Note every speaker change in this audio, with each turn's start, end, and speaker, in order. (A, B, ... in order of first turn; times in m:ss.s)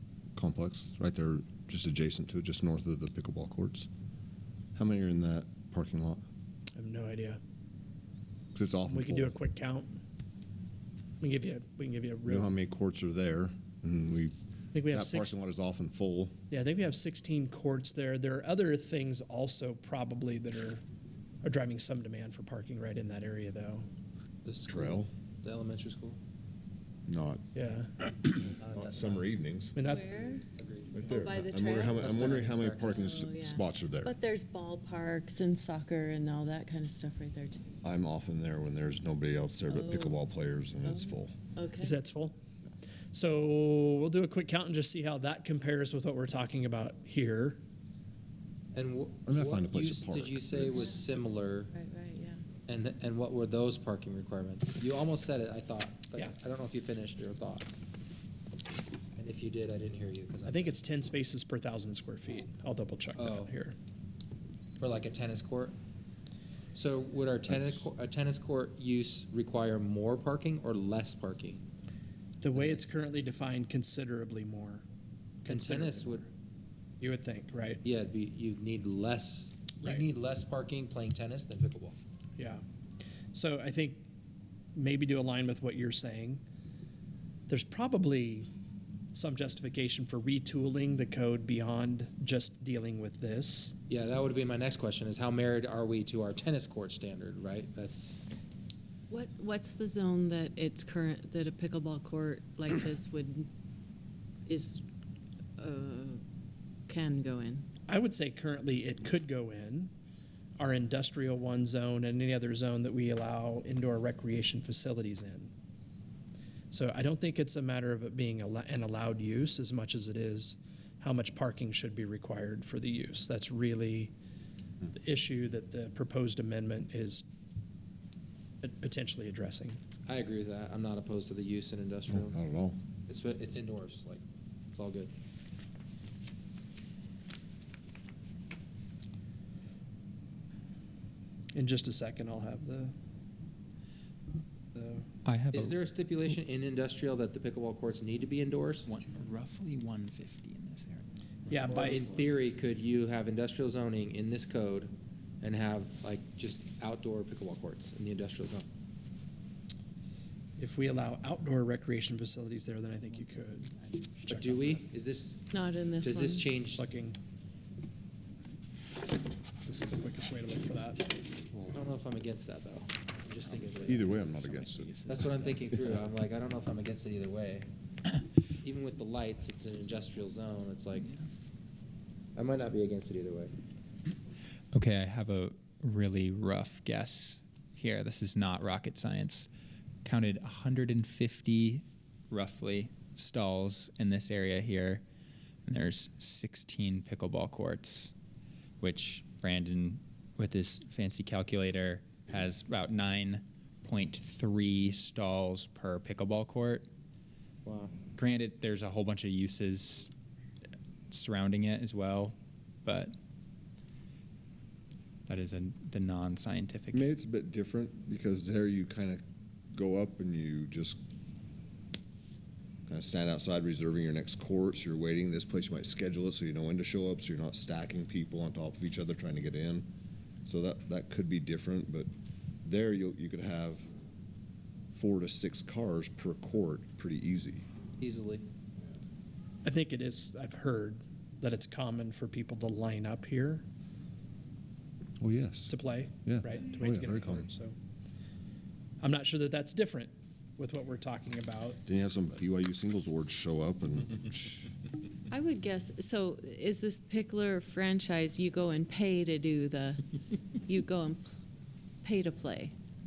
0:00.4-0:03.9 A
0:04.7-0:06.2 A
0:06.8-0:07.4 B
0:08.5-0:09.4 A
0:08.9-0:10.0 B
0:11.2-0:12.5 B
0:12.3-0:14.3 A
0:14.7-0:15.4 B
0:14.9-0:16.3 A
0:16.5-0:20.8 B
0:21.4-0:23.9 B
0:24.4-0:26.2 C
0:24.7-0:25.1 A
0:27.1-0:27.4 A
0:27.6-0:27.9 B
0:28.4-0:29.2 C
0:28.7-0:29.8 A
0:29.7-0:30.1 B
0:29.8-0:30.4 D
0:30.6-0:31.1 C
0:30.9-0:34.2 A
0:31.1-0:37.7 D
0:31.9-0:33.1 C
0:37.8-0:41.4 A
0:39.7-0:40.2 D
0:40.8-0:42.0 D
0:41.8-0:42.3 B
0:43.1-0:47.6 B
0:48.7-0:51.7 C
0:49.3-0:50.9 A
0:51.7-0:52.4 D
0:52.7-0:57.7 C
0:59.2-1:00.7 C
1:00.4-1:03.8 B
1:03.2-1:03.5 C
1:04.8-1:05.7 C
1:06.7-1:11.6 C
1:07.5-1:07.9 A
1:12.4-1:14.8 B
1:12.5-1:12.8 C
1:15.4-1:16.3 B
1:15.5-1:16.2 C
1:17.0-1:17.8 B
1:17.8-1:22.0 C
1:22.4-1:22.6 B
1:23.3-1:24.0 B
1:24.7-1:26.4 B
1:27.5-1:28.5 B
1:29.1-1:33.7 B
1:33.9-1:38.3 C
1:39.1-1:43.5 D
1:44.5-1:44.8 D
1:45.6-1:46.2 D
1:46.9-1:47.6 D
1:47.9-1:49.9 B
1:50.6-1:55.5 B
1:56.7-2:04.1 B
2:04.9-2:07.2 B
2:08.6-2:09.8 B
2:10.1-2:12.4 C
2:12.1-2:12.8 A
2:13.1-2:14.2 C
2:14.7-2:15.1 C
2:21.5-2:22.9 B
2:24.8-2:25.0 B
2:25.2-2:25.8 E
2:25.5-2:28.9 C
2:28.9-2:31.7 E
2:31.5-2:32.3 B
2:31.7-2:38.7 C
2:40.6-2:43.7 B
2:43.9-2:44.8 E
2:44.3-2:45.4 C
2:45.5-2:46.5 D
2:46.0-2:46.8 C
2:46.8-2:47.2 B
2:49.6-2:51.1 B
2:51.7-2:54.1 C
2:53.5-2:55.9 E
2:53.8-2:55.3 A
2:55.1-2:57.7 C
2:58.6-3:01.1 C
3:02.4-3:03.5 C
3:04.7-3:09.5 E
3:10.0-3:15.0 E
3:15.7-3:18.1 E
3:18.8-3:26.9 E
3:27.6-3:27.9 C
3:28.1-3:30.1 E
3:31.1-3:33.1 E
3:35.3-3:37.1 E
3:36.9-3:41.0 A
3:42.9-3:49.9 A
3:50.4-3:52.1 A
3:52.6-3:53.9 A
3:54.9-3:57.7 A
3:58.0-3:58.4 C
3:59.6-4:03.6 B
4:05.2-4:05.7 A
4:05.7-4:07.8 B
4:06.2-4:07.5 A
4:09.0-4:11.8 B
4:11.8-4:14.4 A
4:15.3-4:20.0 D
4:20.6-4:21.2 D
4:22.0-4:22.8 D